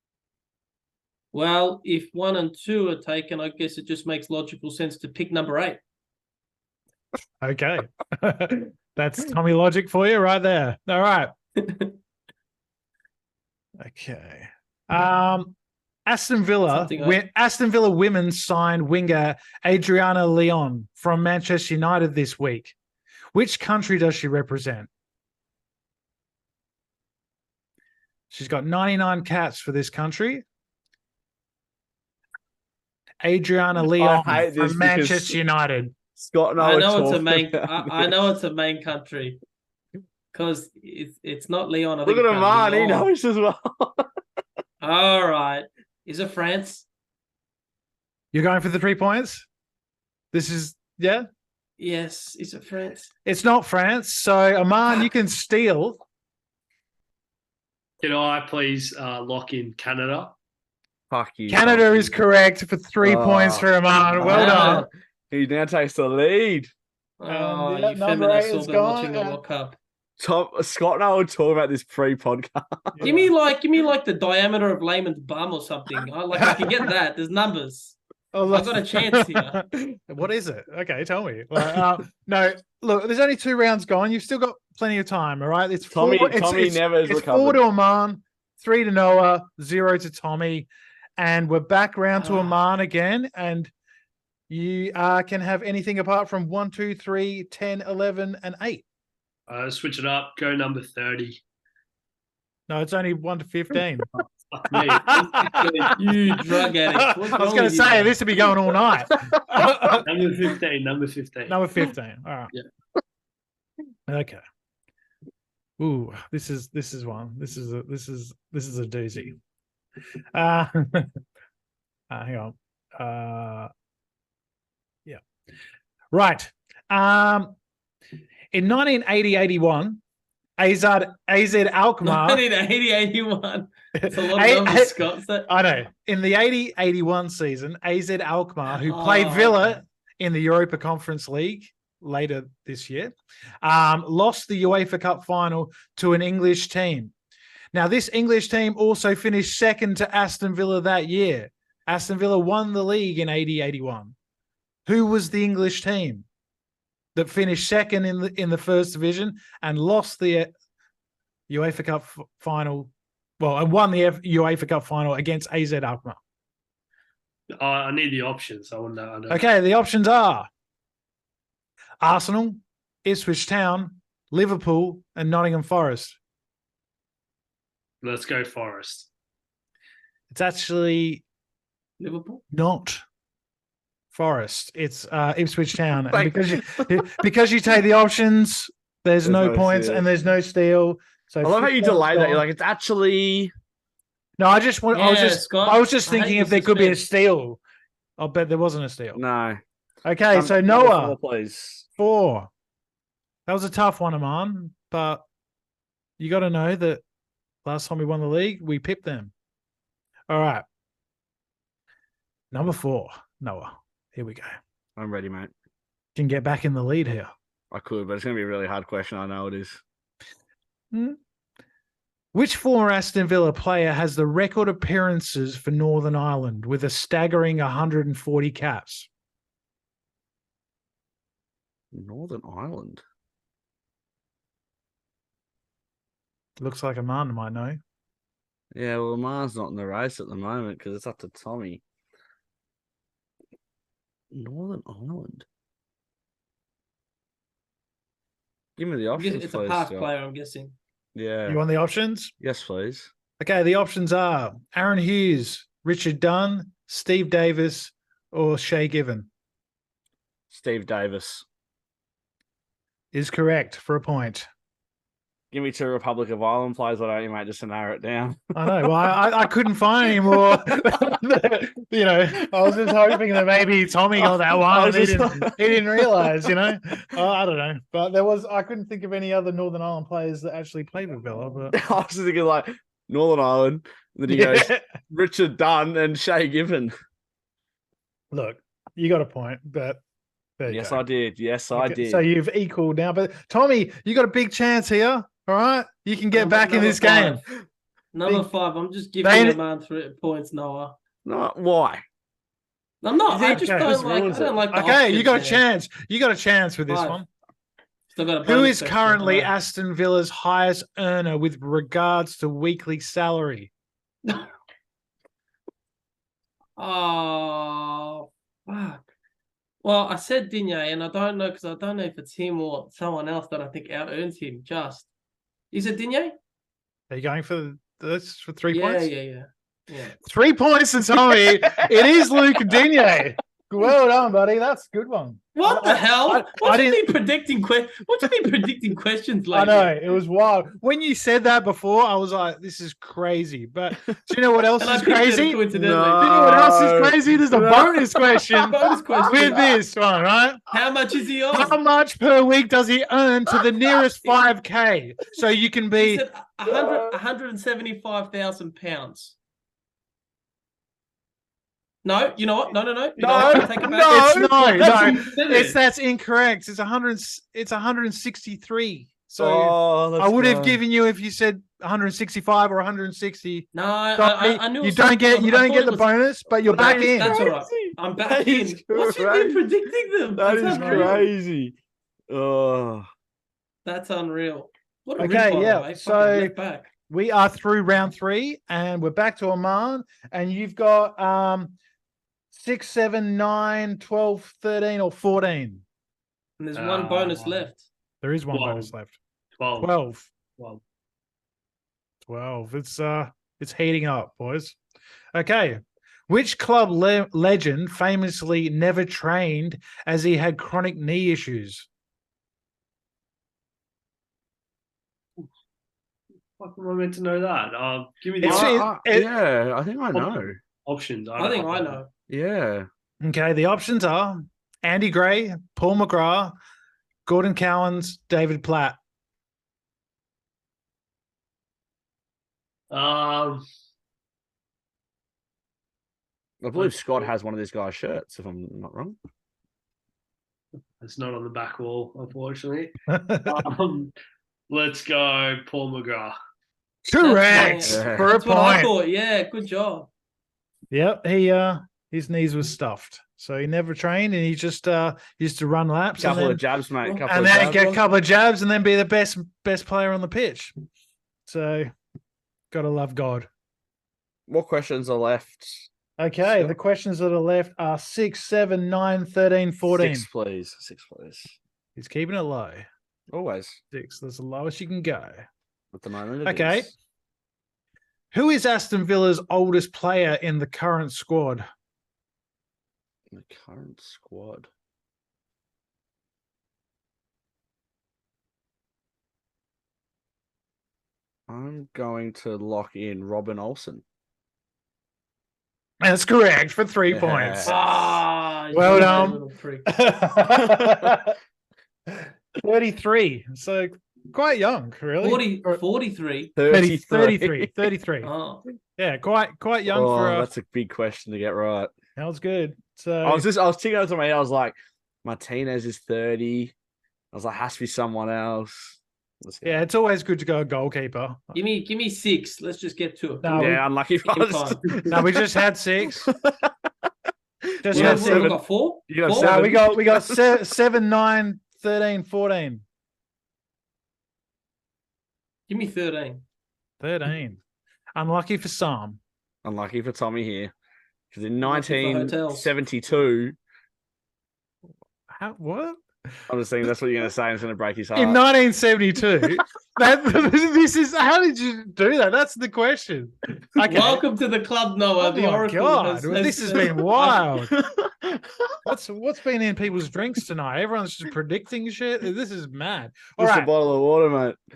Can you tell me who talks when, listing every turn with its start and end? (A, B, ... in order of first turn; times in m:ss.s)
0:01.3-0:05.8 A
0:07.4-0:11.3 B
0:11.6-0:12.0 A
0:13.8-0:22.7 B
0:16.7-0:17.2 A
0:23.3-0:24.9 B
0:28.3-0:30.4 B
0:33.2-0:36.0 B
0:33.9-0:35.3 C
0:36.1-0:38.1 C
0:36.6-0:39.4 A
0:40.3-0:43.1 A
0:42.0-0:44.0 C
0:44.8-0:46.8 A
0:48.3-0:49.4 B
0:50.3-0:51.2 B
0:51.8-0:53.1 A
0:53.2-0:56.0 B
0:58.0-1:00.4 D
1:01.1-1:02.2 C
1:01.5-1:04.9 B
1:03.0-1:06.7 C
1:04.2-1:04.9 A
1:07.2-1:09.8 A
1:07.3-1:09.4 B
1:10.2-1:13.0 C
1:12.9-1:13.3 B
1:13.0-1:18.0 A
1:16.4-1:16.9 B
1:18.3-1:33.7 B
1:18.5-1:19.6 A
1:25.9-1:27.6 C
1:32.2-1:32.6 A
1:34.5-1:38.8 B
1:39.5-1:41.4 D
1:42.7-1:44.1 B
1:44.5-1:46.0 D
1:44.7-1:46.1 B
1:45.9-1:48.2 A
1:46.6-1:50.1 B
1:50.0-1:51.6 D
1:51.5-1:52.5 B
1:54.1-1:54.4 B
1:55.8-1:59.4 B
2:00.3-2:01.1 B
2:02.1-2:03.7 B
2:06.1-2:07.6 B
2:08.5-2:10.0 B
2:10.6-2:12.4 B
2:12.0-2:15.5 A
2:14.0-2:27.1 B
2:18.7-2:19.8 A
2:27.7-2:34.1 B
2:34.8-2:36.2 B
2:37.1-2:40.5 B
2:41.5-2:46.2 B
2:47.5-2:49.4 D
2:49.3-2:50.5 B
2:52.0-2:56.2 B
2:58.0-2:59.1 D
3:00.3-3:01.2 B
3:02.0-3:02.4 A
3:02.5-3:03.0 B
3:04.1-3:12.4 B
3:06.1-3:07.1 C
3:09.2-3:10.0 C
3:11.4-3:13.5 C
3:14.4-3:17.6 B
3:14.9-3:17.0 A
3:18.2-3:19.2 B
3:19.1-3:19.6 C
3:20.0-3:21.2 B
3:20.3-3:21.9 C
3:22.0-3:22.5 B
3:23.5-3:25.2 B
3:26.2-3:27.0 B
3:27.6-3:29.3 B
3:30.3-3:30.6 B
3:32.5-3:34.6 B
3:35.0-3:35.5 C
3:36.2-3:37.3 B
3:37.7-3:39.8 C
3:40.9-3:41.2 B
3:42.3-3:49.1 B
3:51.9-3:53.0 C
3:56.6-3:57.8 B
3:58.7-4:01.8 C
4:04.3-4:05.4 C
4:08.8-4:10.1 C
4:09.2-4:10.7 A
4:11.1-4:11.6 C
4:11.5-4:12.3 B
4:12.4-4:13.1 C
4:13.4-4:19.3 B
4:20.5-4:21.4 C
4:23.1-4:24.5 B
4:25.5-4:28.4 C
4:28.5-4:41.8 B
4:34.2-4:36.3 C
4:41.7-4:46.9 C
4:44.3-4:44.8 B
4:48.3-4:50.0 B
4:50.6-4:51.0 B
4:50.7-4:52.2 C
4:51.7-4:57.4 B
4:56.3-4:57.4 A
4:58.1-5:01.0 A
4:59.2-4:59.6 B
5:01.2-5:02.0 C
5:03.0-5:05.6 A
5:03.3-5:04.6 C
5:03.4-5:04.0 B
5:04.7-5:07.3 B
5:06.9-5:07.2 A
5:08.1-5:09.5 A
5:08.4-5:13.7 B
5:16.8-5:19.0 A
5:19.8-5:25.1 A
5:25.7-5:26.3 A
5:27.1-5:29.1 B
5:28.7-5:30.2 A
5:30.2-5:37.2 B
5:35.5-5:39.9 A
5:39.5-5:45.6 B
5:44.8-5:46.4 A
5:45.7-5:48.7 C
5:46.2-5:50.6 B
5:48.6-5:49.7 A
5:50.7-5:51.8 A
5:51.5-5:56.2 B
5:56.0-5:59.4 A
5:56.7-5:57.2 C
6:02.0-6:05.3 A
6:03.2-6:05.2 C
6:03.4-6:17.4 B
6:05.1-6:05.7 D
6:09.4-6:10.8 C
6:13.7-6:16.1 A
6:16.6-6:19.6 C
6:16.6-6:21.2 A
6:20.4-6:21.8 C
6:20.7-6:21.2 B
6:22.3-6:23.1 C
6:23.8-6:26.9 A
6:25.2-6:26.5 B
6:27.1-6:31.7 B
6:32.5-6:35.8 B
6:36.6-6:37.8 A
6:36.7-6:37.7 D
6:38.2-6:39.2 B
6:38.5-6:38.9 D
6:39.6-6:39.9 D
6:39.8-6:40.3 B
6:42.2-6:44.8 B
6:45.3-6:51.9 B
6:56.6-6:58.8 D
6:58.4-6:59.3 B
6:58.4-7:00.6 C
7:00.1-7:02.0 D
7:01.4-7:02.1 A
7:02.3-7:02.9 C
7:03.2-7:06.5 B
7:07.2-7:09.0 B
7:12.9-7:13.6 D
7:16.6-7:19.2 C
7:21.0-7:22.9 D
7:23.1-7:23.6 B
7:23.4-7:24.1 D
7:24.7-7:26.3 D
7:27.0-7:28.9 B
7:27.2-7:30.1 A
7:27.8-7:28.3 C
7:30.9-7:36.6 B
7:36.2-7:37.8 C
7:37.0-7:38.0 A
7:37.3-7:40.7 B
7:41.4-7:41.9 B
7:42.7-7:43.5 B
7:44.5-7:45.9 C
7:46.2-7:50.3 B
7:46.5-7:46.7 C
7:49.9-7:51.6 C
7:52.0-7:52.9 B
7:53.3-7:53.8 C
7:53.9-7:55.4 B
7:55.9-7:56.9 C
7:56.4-7:56.9 B
7:58.3-8:01.6 B
8:03.3-8:04.7 C
8:11.5-8:14.0 C
8:16.0-8:18.2 B
8:17.1-8:17.8 C
8:17.6-8:19.9 A
8:18.7-8:21.3 B
8:20.6-8:21.2 C
8:22.1-8:25.8 B
8:25.2-8:26.5 A
8:26.6-8:27.7 C
8:26.7-8:28.3 B
8:28.2-8:28.6 A
8:29.0-8:30.5 B
8:29.9-8:31.9 C
8:32.2-8:33.4 B
8:33.2-8:36.7 C
8:37.3-8:39.8 C
8:39.6-8:41.5 B
8:41.5-8:44.8 A
8:43.4-8:43.8 B
8:43.5-8:45.4 C
8:45.1-8:46.2 B
8:46.1-8:46.7 C
8:47.8-8:48.6 B
8:47.8-8:50.6 C
8:47.9-8:49.6 A
8:49.3-8:52.8 B
8:55.7-8:56.4 A
8:57.0-8:57.6 B
8:58.2-8:59.2 B
8:59.6-9:00.7 C
9:01.3-9:03.6 C
9:01.6-9:02.7 A
9:05.3-9:06.0 B
9:06.5-9:08.4 C
9:08.1-9:14.2 B
9:13.8-9:17.4 A
9:15.2-9:17.7 B
9:17.6-9:18.8 C
9:18.8-9:23.7 B
9:23.4-9:24.6 C